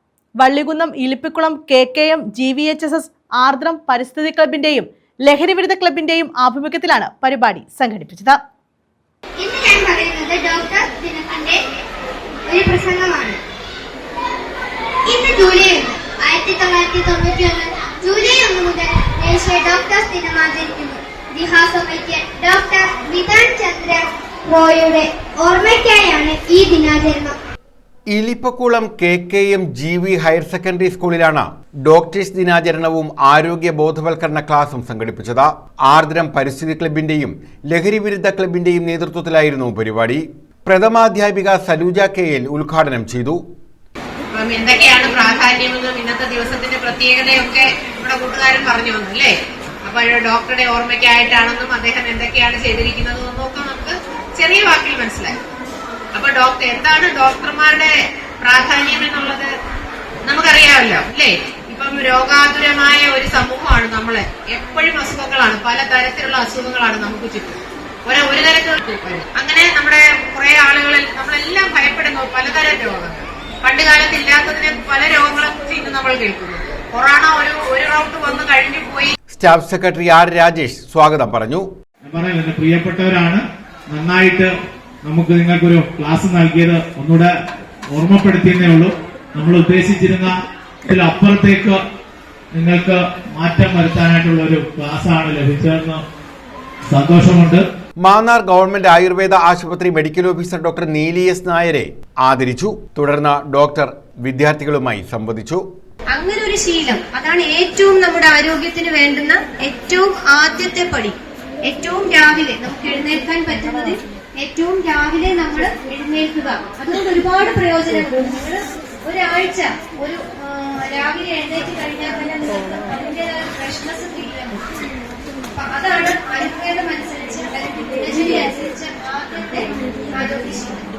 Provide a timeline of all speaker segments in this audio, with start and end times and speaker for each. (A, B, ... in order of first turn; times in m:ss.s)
0:00.4-0:08.4 A
0:09.4-0:11.6 B
0:12.5-0:13.4 B
0:15.1-0:27.4 B
0:28.1-0:43.4 C
0:44.3-0:49.3 D
0:49.8-0:55.4 D
0:56.1-0:59.5 D
1:00.2-1:19.1 D
1:19.3-1:21.6 C
1:22.0-1:24.5 E
1:25.0-1:27.3 E
1:27.9-1:30.3 E
1:30.8-1:31.8 E
1:32.5-1:36.0 E
1:36.9-1:37.6 E
1:38.0-1:45.6 C
1:46.1-2:04.8 F
2:05.5-2:10.9 F